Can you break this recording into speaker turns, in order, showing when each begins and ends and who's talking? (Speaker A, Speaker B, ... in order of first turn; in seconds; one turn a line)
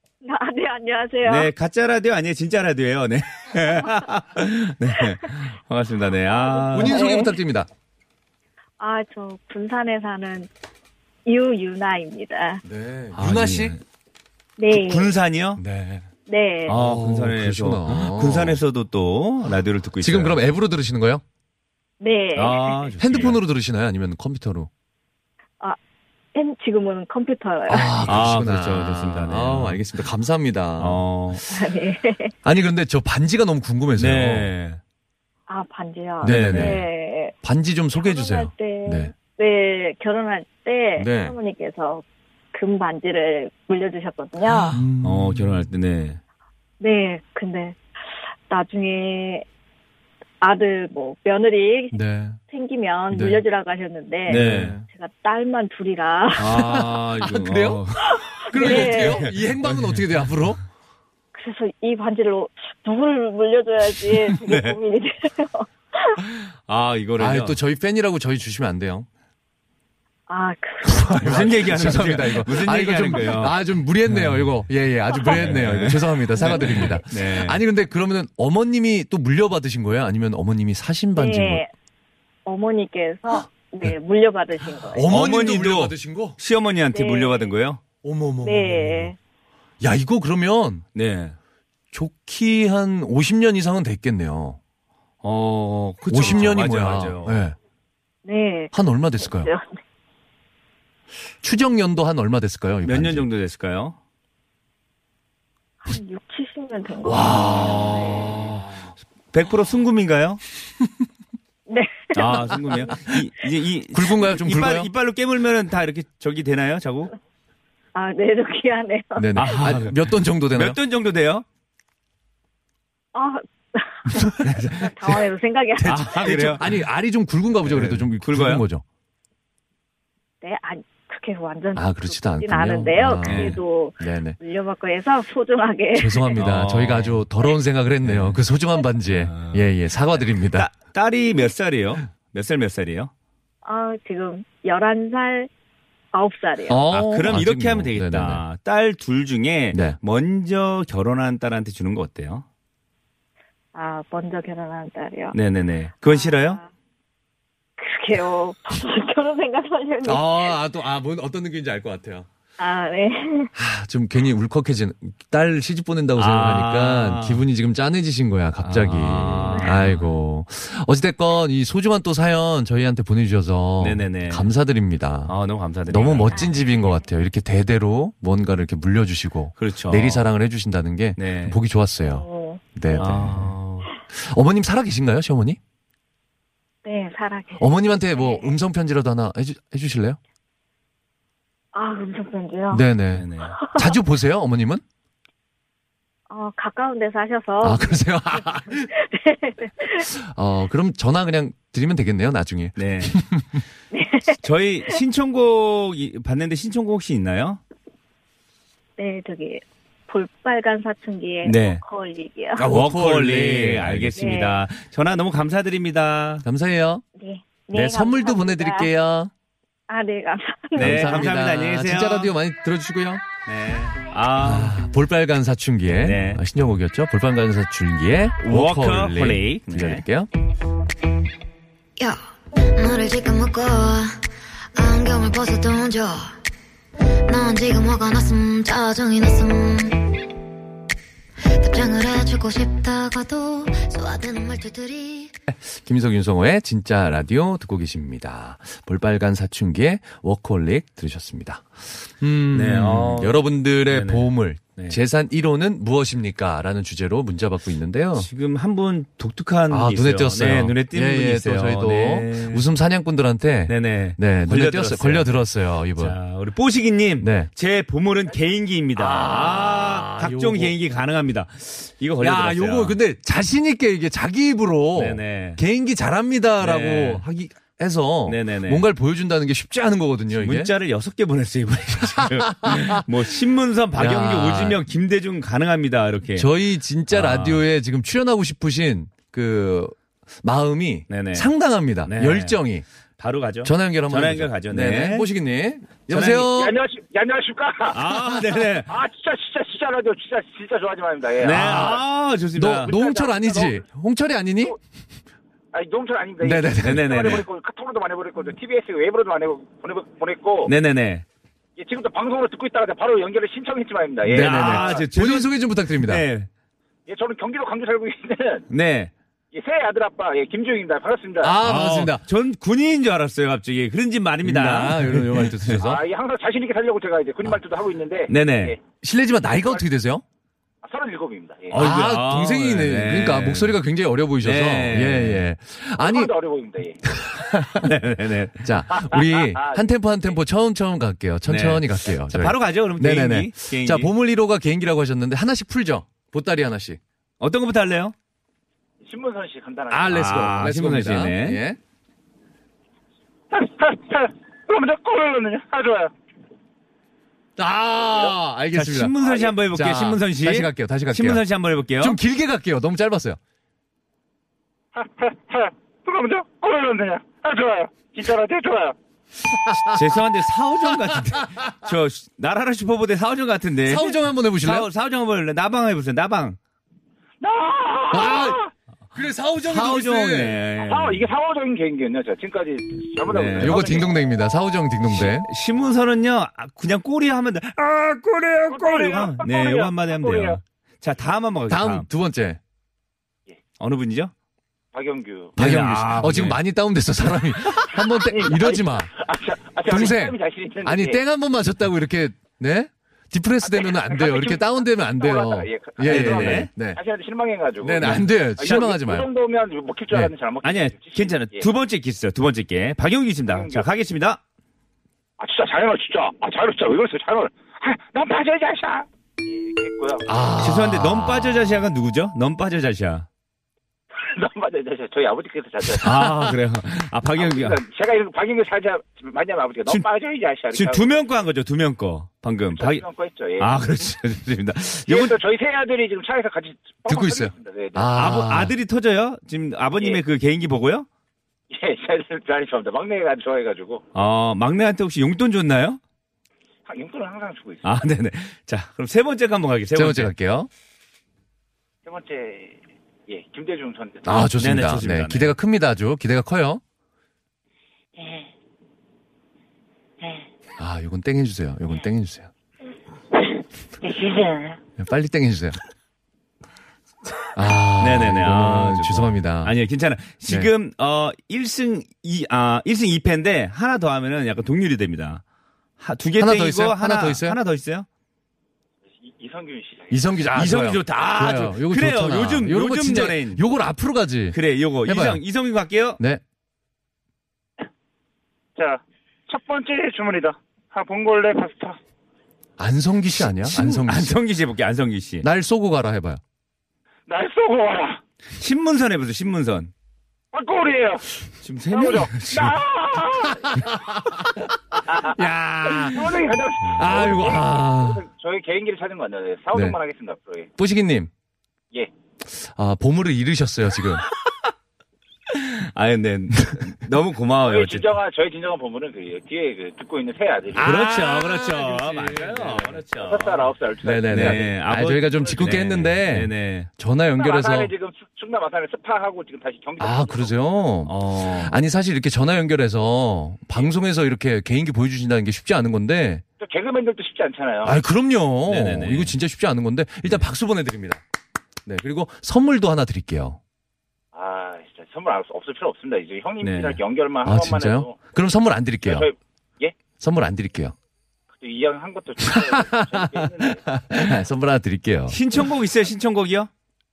Speaker A: 0.2-1.5
Speaker B: 1.2-7.2
Speaker A: 6.5-7.3
Speaker C: 6.7-7.7
Speaker A: 8.8-10.5
Speaker A: 11.3-12.6
Speaker C: 12.6-13.8
Speaker B: 13.1-13.8
Speaker A: 14.6-15.1
Speaker B: 14.7-15.6
Speaker C: 15.6-16.1
Speaker A: 16.3-16.8
Speaker C: 16.7-18.6
Speaker B: 16.7-20.4
Speaker C: 20.0-21.2
Speaker A: 22.0-22.9
Speaker B: 22.4-23.4
Speaker C: 23.0-24.7
Speaker A: 26.3-27.9
Speaker C: 27.7-31.0
Speaker B: 28.1-29.8
Speaker B: 30.8-31.4
Speaker A: 31.5-32.3
Speaker C: 32.4-34.5
Speaker B: 34.0-34.8
Speaker A: 35.5-37.3
Speaker C: 36.2-36.9
Speaker B: 36.2-36.8
Speaker C: 37.4-39.1
Speaker A: 38.0-44.8
Speaker C: 41.0-41.4
Speaker C: 44.7-45.7
Speaker B: 45.0-46.2
Speaker A: 46.8-47.8
Speaker A: 48.5-49.5
Speaker A: 50.4-56.6
Speaker C: 51.9-52.4
Speaker C: 53.1-53.4
Speaker B: 54.3-54.8
Speaker C: 54.3-54.9
Speaker B: 56.4-60.0
Speaker C: 56.4-57.9
Speaker A: 58.0-59.3
Speaker C: 58.4-60.6
Speaker A: 61.3-66.2
Speaker B: 64.5-64.8
Speaker B: 66.3-67.6
Speaker C: 67.2-69.1
Speaker A: 70.3-71.5
Speaker C: 70.8-81.6
Speaker B: 71.2-73.5
Speaker B: 74.1-74.5
Speaker B: 75.4-77.6
Speaker A: 81.2-81.7
Speaker A: 82.5-85.3
Speaker C: 83.3-83.9
Speaker C: 84.8-86.4
Speaker B: 85.1-87.8
Speaker A: 86.9-87.5
Speaker C: 88.0-89.1
Speaker A: 88.4-89.2
Speaker C: 89.8-90.9
Speaker B: 90.9-91.4
Speaker C: 91.9-94.6
Speaker B: 95.2-97.4
Speaker C: 96.1-97.6
Speaker A: 98.2-99.8
Speaker C: 98.7-99.5
Speaker C: 101.4-103.2
Speaker B: 102.8-104.0
Speaker A: 105.8-108.3
Speaker C: 107.0-108.7
Speaker B: 107.1-108.7
Speaker B: 109.3-110.4
Speaker A: 111.7-112.9
Speaker B: 112.2-117.1
Speaker C: 113.9-114.9
Speaker A: 118.0-119.5
Speaker C: 119.2-120.8
Speaker B: 119.4-121.5
Speaker A: 123.1-126.5
Speaker B: 124.4-125.2
Speaker C: 125.8-128.8
Speaker B: 125.8-126.7
Speaker B: 127.7-128.7
Speaker A: 130.4-136.4
Speaker C: 131.8-134.4
Speaker B: 133.2-133.6
Speaker C: 135.9-140.7
Speaker B: 136.4-137.2
Speaker B: 138.0-138.4
Speaker B: 139.1-139.6
Speaker B: 140.5-143.1
Speaker A: 143.7-145.5
Speaker A: 146.1-146.8
Speaker C: 146.7-148.4
Speaker B: 146.9-152.4
Speaker C: 149.7-150.0
Speaker A: 153.7-155.4
Speaker B: 155.3-156.6
Speaker A: 156.1-156.7
Speaker A: 157.8-160.5
Speaker C: 160.1-162.3
Speaker A: 162.6-163.5
Speaker C: 163.6-175.3
Speaker B: 166.2-167.4
Speaker B: 168.6-170.2
Speaker B: 173.8-174.5
Speaker B: 175.3-176.6
Speaker C: 175.9-183.6
Speaker B: 179.6-180.3
Speaker B: 181.2-181.6
Speaker A: 182.0-182.6
Speaker B: 182.9-183.9
Speaker C: 184.1-185.6
Speaker A: 186.8-188.5
Speaker C: 187.6-190.2
Speaker A: 191.7-192.8
Speaker C: 192.7-194.8
Speaker B: 193.1-193.6
Speaker A: 193.6-193.9
Speaker A: 196.3-200.1
Speaker C: 197.6-198.9
Speaker C: 200.0-203.6
Speaker B: 202.8-203.2
Speaker A: 203.9-204.4
Speaker B: 204.4-207.6
Speaker A: 209.0-212.7
Speaker B: 211.4-211.8
Speaker C: 212.6-214.3
Speaker B: 212.6-216.4
Speaker A: 214.2-214.6
Speaker C: 216.4-217.0
Speaker A: 217.2-218.9
Speaker C: 217.7-219.3
Speaker A: 219.9-221.2
Speaker B: 220.8-222.3
Speaker C: 220.8-223.3
Speaker B: 223.5-224.7
Speaker C: 224.4-230.3
Speaker B: 226.0-226.4
Speaker B: 228.5-230.0
Speaker D: 232.0-234.2
Speaker D: 234.8-236.4
Speaker D: 237.3-240.3
Speaker D: 241.6-245.3
Speaker C: 245.5-258.3
Speaker B: 252.5-255.0
Speaker B: 258.2-262.6
Speaker C: 259.7-266.2
Speaker B: 263.7-265.3
Speaker B: 266.0-273.0
Speaker C: 267.2-267.5
Speaker C: 269.0-270.8
Speaker C: 272.2-280.7
Speaker B: 274.9-275.6
Speaker B: 276.6-277.2
Speaker B: 278.3-278.9
Speaker B: 280.4-286.5
Speaker C: 282.3-283.0
Speaker C: 283.9-284.8
Speaker C: 286.4-292.9
Speaker B: 287.1-287.6
Speaker B: 291.1-291.5
Speaker B: 292.1-292.6
Speaker B: 293.2-295.3
Speaker C: 293.6-296.8
Speaker B: 296.1-296.5
Speaker E: 296.6-298.1
Speaker B: 297.9-298.9
Speaker E: 298.9-301.9
Speaker B: 301.4-302.9
Speaker C: 301.6-302.0
Speaker C: 302.6-304.8
Speaker E: 302.9-303.8
Speaker E: 305.7-310.7
Speaker C: 306.4-307.4
Speaker B: 306.8-307.5
Speaker B: 310.6-311.2
Speaker E: 311.8-315.1
Speaker B: 314.2-316.5
Speaker C: 314.3-316.3
Speaker E: 317.1-318.7
Speaker B: 318.7-319.1
Speaker E: 319.5-321.6
Speaker C: 321.4-322.2
Speaker B: 321.6-325.9
Speaker C: 324.4-326.0
Speaker E: 325.8-328.8
Speaker B: 328.3-328.8
Speaker C: 329.0-330.2
Speaker E: 329.5-329.8
Speaker E: 330.8-331.8
Speaker B: 331.7-333.8
Speaker C: 331.7-336.3
Speaker B: 334.4-335.4
Speaker E: 336.0-337.0
Speaker C: 337.1-337.9
Speaker B: 337.8-338.7
Speaker C: 338.6-347.0
Speaker E: 339.0-339.9
Speaker B: 341.5-344.1
Speaker B: 347.4-348.1
Speaker E: 349.0-350.2
Speaker C: 349.9-351.8
Speaker B: 349.9-351.6
Speaker E: 353.5-356.1
Speaker C: 357.6-361.4
Speaker E: 358.0-358.4
Speaker B: 358.7-362.2
Speaker C: 362.0-363.4
Speaker E: 364.9-369.0
Speaker C: 369.5-370.1
Speaker B: 369.9-376.6
Speaker C: 370.8-371.9
Speaker C: 373.9-374.9
Speaker E: 377.4-378.7
Speaker C: 378.1-378.6
Speaker C: 379.1-380.6
Speaker B: 379.6-381.3
Speaker E: 380.8-384.1
Speaker B: 383.3-384.1
Speaker C: 383.6-385.5
Speaker B: 385.1-392.1
Speaker E: 388.7-390.6
Speaker C: 391.7-392.6
Speaker B: 393.8-394.3
Speaker E: 394.9-395.6
Speaker B: 395.6-396.6
Speaker C: 395.6-399.1
Speaker E: 398.1-401.2
Speaker C: 399.9-407.0
Speaker E: 403.6-411.7
Speaker B: 406.1-406.7
Speaker C: 407.8-409.3
Speaker B: 408.0-408.3
Speaker B: 410.6-414.4
Speaker E: 413.5-413.9
Speaker E: 415.4-420.3
Speaker C: 420.3-421.9
Speaker B: 420.6-423.3
Speaker E: 424.1-426.2
Speaker B: 426.0-427.8
Speaker C: 426.2-426.5
Speaker E: 427.3-431.2
Speaker B: 430.7-433.0
Speaker E: 432.7-433.7
Speaker B: 433.6-435.4
Speaker E: 435.1-438.2
Speaker C: 437.1-438.8
Speaker B: 438.1-441.1
Speaker E: 441.7-444.0
Speaker B: 444.1-446.0
Speaker E: 446.9-448.1
Speaker B: 447.8-450.3
Speaker C: 449.9-450.7
Speaker E: 452.1-454.5
Speaker C: 454.2-456.8
Speaker B: 454.6-455.6
Speaker E: 458.2-458.5
Speaker E: 460.2-460.5
Speaker C: 460.8-462.5
Speaker E: 464.0-464.8
Speaker C: 465.0-465.8
Speaker C: 467.6-469.8
Speaker B: 468.0-475.4
Speaker C: 470.5-470.7
Speaker B: 476.0-478.1
Speaker C: 476.4-477.6
Speaker E: 479.2-480.3
Speaker C: 480.1-485.4
Speaker B: 480.5-483.6
Speaker B: 484.5-486.2
Speaker E: 488.8-492.0
Speaker C: 492.8-494.4
Speaker B: 493.6-495.5
Speaker C: 495.4-496.4
Speaker E: 497.3-498.2
Speaker B: 498.6-499.9
Speaker E: 500.5-501.3
Speaker B: 501.6-502.8
Speaker E: 501.9-503.7
Speaker C: 503.6-506.4
Speaker E: 505.1-510.7
Speaker B: 506.9-507.2
Speaker C: 506.9-508.2
Speaker C: 510.8-511.3
Speaker C: 512.5-514.3
Speaker B: 515.5-518.2
Speaker E: 517.6-520.9
Speaker B: 520.7-523.7
Speaker C: 520.8-523.0
Speaker E: 523.2-525.8
Speaker C: 524.0-527.9
Speaker B: 524.3-526.9
Speaker E: 527.4-530.5
Speaker C: 530.0-536.4
Speaker B: 531.1-531.8
Speaker E: 536.6-538.0
Speaker C: 537.8-541.2
Speaker B: 538.7-539.3
Speaker C: 541.9-543.6
Speaker E: 544.3-548.2
Speaker B: 546.6-547.0
Speaker C: 547.4-549.3
Speaker E: 549.0-550.0
Speaker C: 550.2-551.0
Speaker E: 551.6-553.8
Speaker C: 552.4-555.4
Speaker B: 555.3-556.7